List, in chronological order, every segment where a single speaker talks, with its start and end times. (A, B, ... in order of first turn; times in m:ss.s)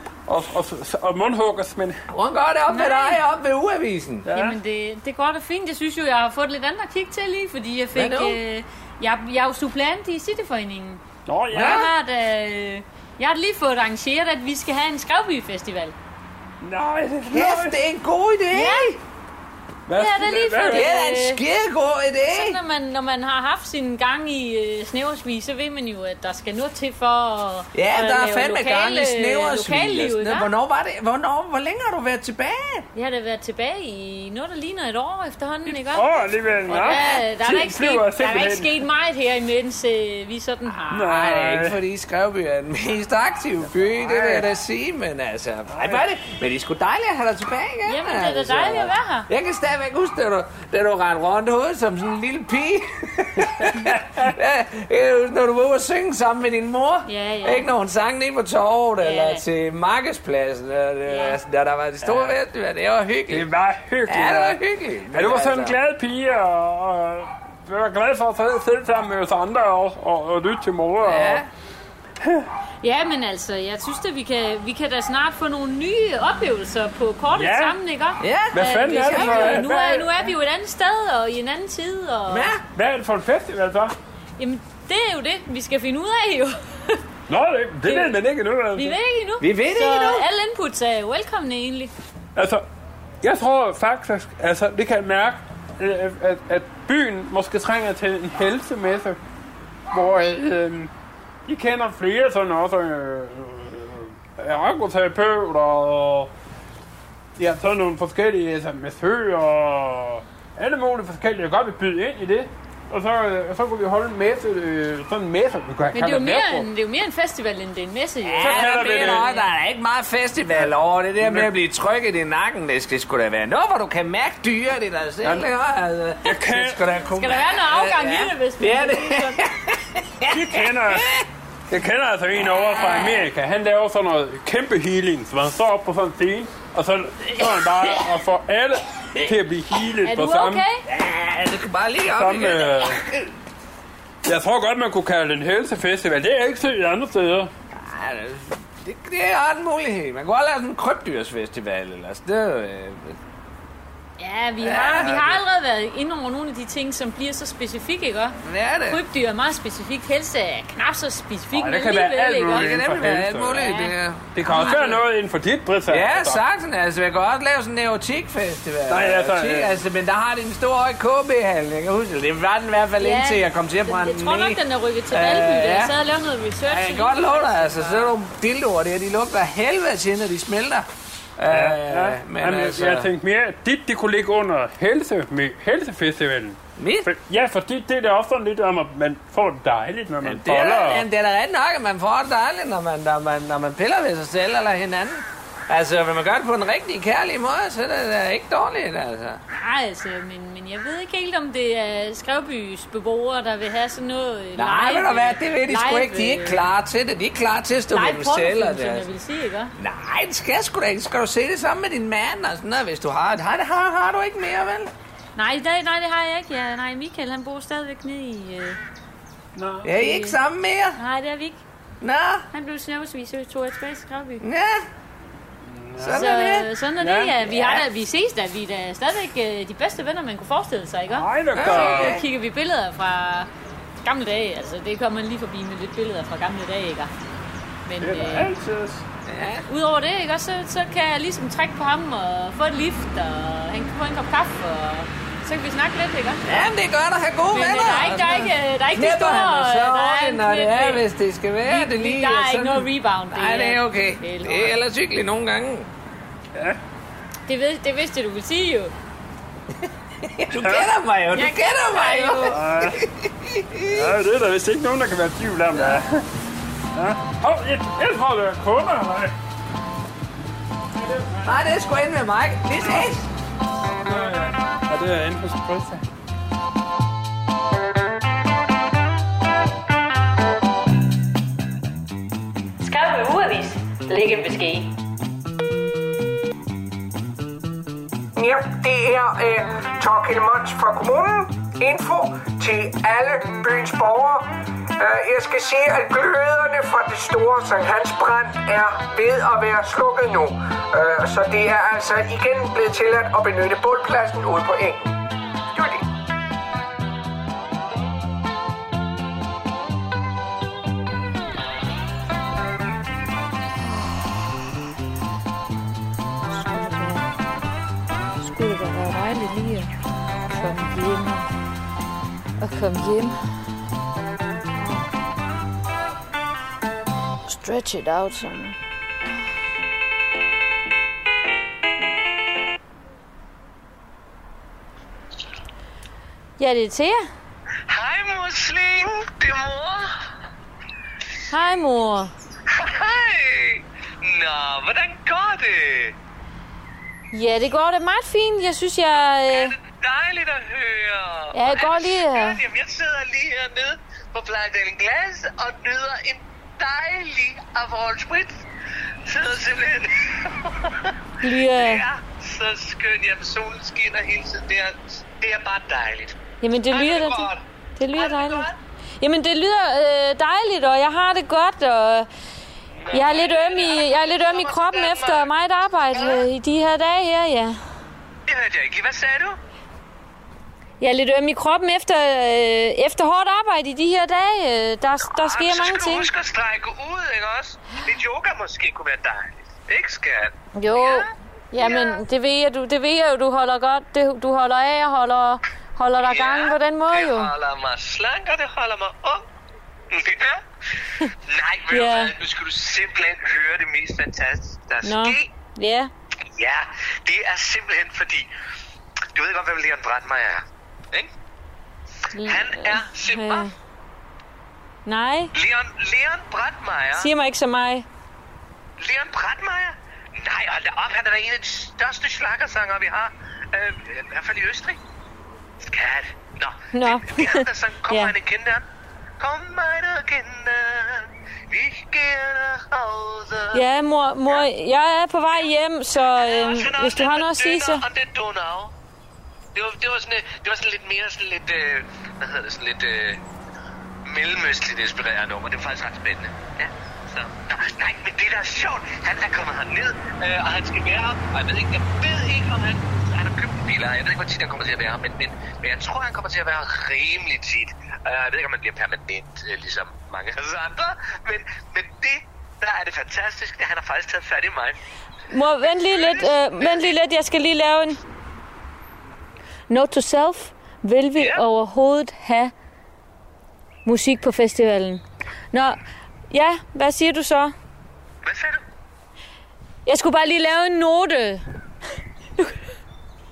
0:00.3-0:02.0 A
0:02.1-0:04.3 B
0:02.7-0:03.2 C
0:04.2-0:04.6 A
0:04.3-0:16.0 C
0:08.0-0:08.4 B
0:11.3-0:11.9 A
0:11.5-0:11.9 B
0:16.6-0:17.8 A
0:17.3-0:19.0 B
0:18.5-0:19.0 C
0:19.9-0:21.0 A
0:20.0-0:21.4 C
0:20.7-0:22.6 B
0:22.2-0:30.5 C
0:27.8-0:32.9 B
0:33.0-0:36.1 C
0:35.9-0:38.7 A
0:36.7-0:41.2 C
0:36.7-0:37.2 B
0:40.9-0:41.8 A
0:41.1-1:03.5 B
0:44.0-0:44.5 A
0:45.7-0:46.0 A
0:47.9-0:49.3 C
0:53.5-0:53.9 A
0:57.1-0:57.7 C
0:59.0-0:59.4 C
1:01.1-1:01.4 C
1:02.0-1:02.4 A
1:03.3-1:04.6 A
1:04.1-1:05.8 B
1:05.1-1:11.4 A
1:11.0-1:11.5 B
1:12.2-1:12.5 A
1:12.8-1:22.5 C
1:17.4-1:17.8 A
1:18.2-1:19.6 B
1:18.5-1:20.2 A
1:22.3-1:22.6 B
1:22.7-1:24.0 A
1:24.4-1:27.0 C
1:27.3-1:29.0 A
1:27.8-1:28.2 C
1:28.8-1:31.9 C
1:29.4-1:30.2 B
1:32.4-1:32.6 A
1:33.2-1:39.2 A
1:39.9-1:40.9 A
1:41.5-1:46.3 A
1:47.4-1:56.7 A
1:55.9-1:59.4 C
1:58.2-2:11.3 B
1:58.4-1:59.4 A
2:00.6-2:01.5 A
2:05.2-2:05.5 A
2:06.2-2:06.8 A
2:07.2-2:09.5 C
2:10.3-2:11.1 A
2:11.7-2:20.6 A
2:12.5-2:13.2 B
2:17.4-2:18.1 B
2:20.0-2:20.8 C
2:20.9-2:23.3 B
2:22.1-2:23.0 A
2:24.2-2:27.5 A
2:27.7-2:33.2 B
2:34.2-2:38.4 C
2:34.6-2:35.4 B
2:38.4-2:39.0 B
2:38.9-2:42.8 C
2:41.5-2:43.8 A
2:42.5-2:45.0 B
2:43.5-2:43.9 C
2:44.4-2:46.4 A
2:44.5-2:45.0 C
2:45.9-2:55.9 B
2:48.9-2:49.8 A
2:53.0-2:58.1 C
2:56.7-3:00.9 B
3:01.4-3:03.1 B
3:01.5-3:11.1 A
3:06.8-3:07.1 B
3:10.2-3:19.4 B
3:19.5-3:26.7 C
3:24.6-3:29.1 B
3:27.9-3:29.7 C
3:29.8-3:34.9 B
3:35.4-3:38.8 C
3:39.6-3:39.9 A
3:39.8-3:41.0 B
3:39.9-3:40.4 C
3:41.0-3:41.6 C
3:42.0-3:42.5 B
3:42.5-3:44.4 C
3:44.4-3:44.9 B
3:45.7-3:46.4 A
3:46.0-3:46.7 B
3:46.1-3:53.5 C
3:47.0-3:47.4 A
3:47.5-3:47.8 B
3:51.1-3:52.2 A
3:51.6-3:52.2 B
3:54.0-3:57.1 C
3:57.9-3:58.5 C
3:58.0-3:59.0 A
3:59.3-3:59.7 B
3:59.7-4:06.7 C
4:06.5-4:15.9 B
4:07.5-4:11.0 C
4:11.6-4:14.8 C
4:17.5-4:18.9 C
4:20.2-4:24.1 B
4:20.6-4:20.9 A
4:21.3-4:22.6 C
4:22.5-4:23.0 A
4:23.9-4:26.3 A
4:25.7-4:26.0 B
4:26.9-4:29.4 A
4:31.0-4:31.6 A
4:31.4-4:33.3 B
4:34.0-4:36.0 A
4:42.8-4:44.9 C
4:48.4-5:05.2 D
5:05.7-5:06.1 D
5:13.8-5:14.6 C
5:16.5-5:17.3 C
5:18.4-5:19.9 C
5:20.5-5:21.5 C
5:22.6-5:23.6 C
5:24.7-5:25.1 C
5:27.5-5:28.8 C
5:36.6-5:37.3 C
5:37.9-5:40.2 E
5:41.5-5:42.3 C
5:42.7-5:46.2 E
5:47.3-5:49.7 C
5:49.4-5:58.6 E
5:51.5-5:52.6 C
5:59.3-6:06.4 E
6:01.4-6:02.0 C
6:06.6-6:08.7 C
6:06.9-6:08.8 E
6:09.2-6:12.3 C
6:13.1-6:15.5 E
6:13.1-6:17.8 C
6:16.1-6:16.4 E
6:18.5-6:19.6 E
6:21.0-6:26.3 C
6:25.2-6:32.2 E
6:30.8-6:37.5 C
6:36.2-6:39.5 E
6:40.1-6:40.6 E
6:41.4-6:45.5 E
6:41.9-6:42.4 C
6:45.0-6:46.1 C
6:46.6-6:48.5 E
6:49.4-6:51.3 E
6:52.3-6:53.8 C
6:52.4-6:53.7 E
6:55.1-6:55.5 C
6:55.5-6:57.3 E
6:57.2-6:58.1 C
6:59.0-7:05.0 E
7:05.8-7:08.9 E
7:06.9-7:08.3 C
7:09.4-7:13.8 E
7:13.7-7:18.0 C
7:16.4-7:18.9 E
7:19.8-7:23.4 E
7:24.3-7:45.0 E
7:45.5-7:48.2 C
7:45.8-7:47.2 E
7:49.9-7:52.7 C
7:51.4-7:51.6 E
7:54.0-7:56.0 C
7:56.5-7:57.7 C
7:58.4-7:58.8 E
8:00.1-8:01.6 C